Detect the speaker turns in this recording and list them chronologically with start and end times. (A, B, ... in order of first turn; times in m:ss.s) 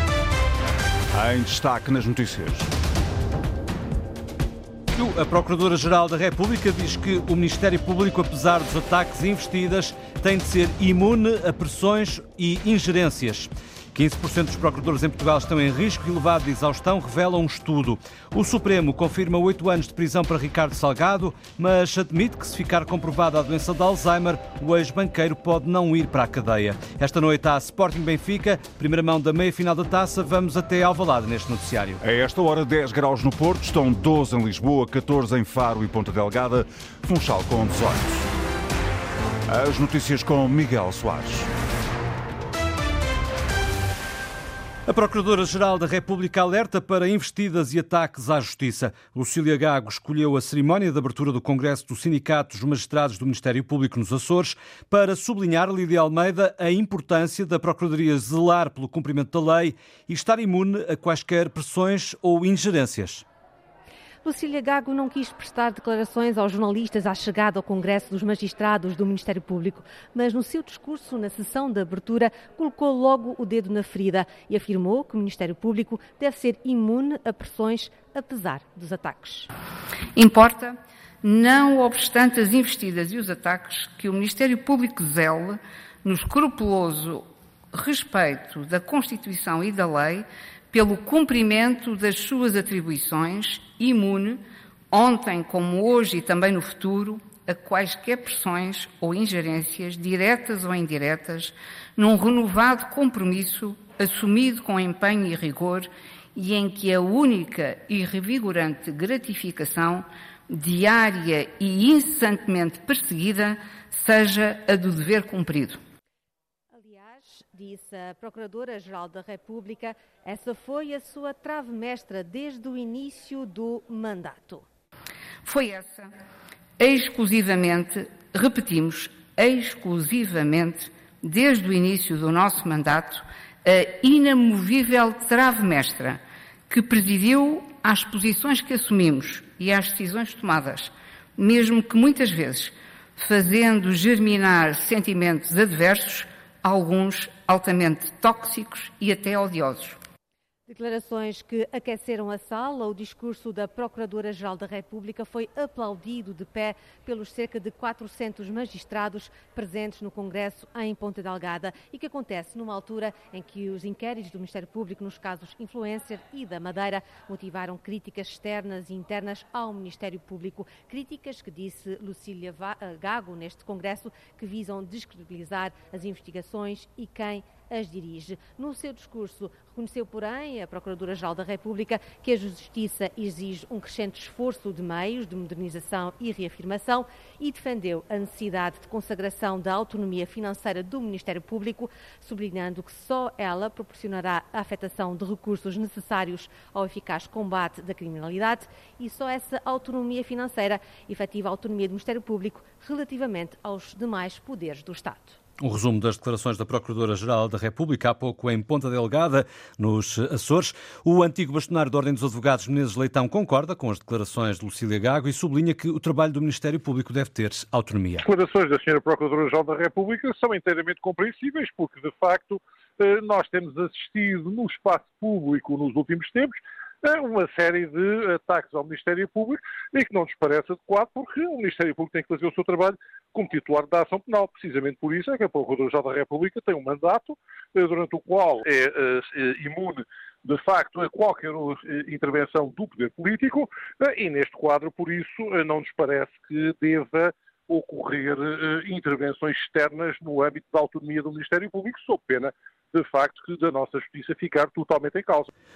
0:01.1-0:02.7 A
0:04.9-0:32.0 B
0:32.0-0:38.3 A
0:39.5-0:41.5 A
0:44.9-1:03.2 B
1:04.2-1:19.5 C
1:20.1-1:55.8 D
1:56.7-2:04.6 C
2:05.4-2:06.1 D
2:06.8-2:30.0 D
2:30.7-3:25.4 C
3:25.6-3:38.3 B
3:38.2-4:15.5 E